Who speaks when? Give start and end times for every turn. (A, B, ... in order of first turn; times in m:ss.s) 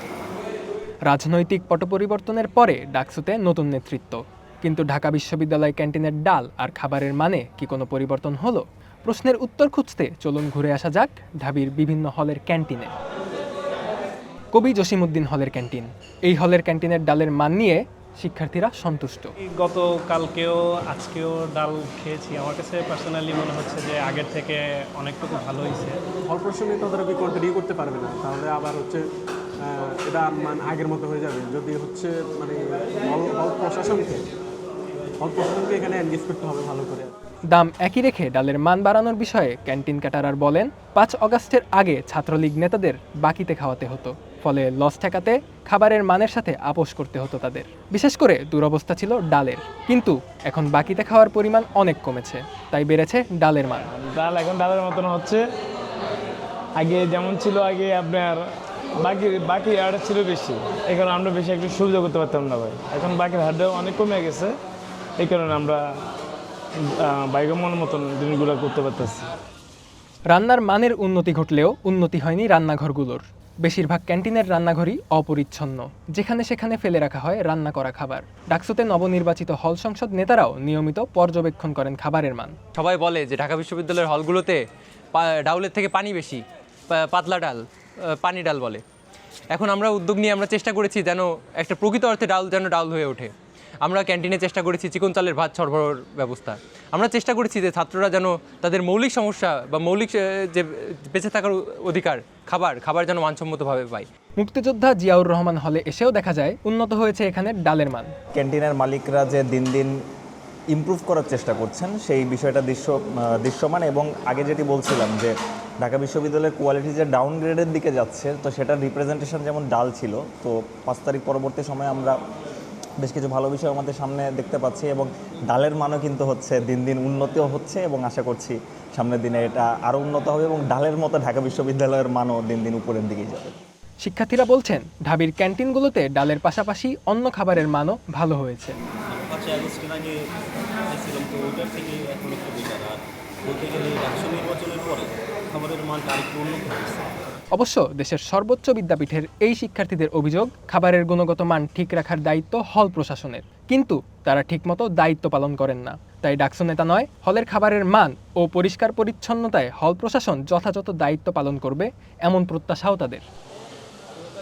0:01.1-0:12.9 A
0:14.5-0:19.3 A
0:19.6-0:26.0 B
0:26.3-0:29.0 C
0:29.6-0:34.3 C
0:35.2-0:37.1 C
0:37.5-0:53.9 A
0:53.9-0:55.4 D
0:56.8-1:04.5 D
1:05.2-1:06.0 D
1:06.8-1:09.3 D
1:10.3-1:22.6 A
1:22.7-1:24.6 E
1:25.1-1:28.8 E
1:29.5-1:44.1 E
1:44.4-1:48.1 A
1:48.3-1:50.0 F
1:50.7-2:02.2 F
2:03.0-2:13.6 F
2:14.0-2:18.7 A
2:19.1-2:20.1 G
2:20.9-2:27.0 G
2:27.5-2:43.2 A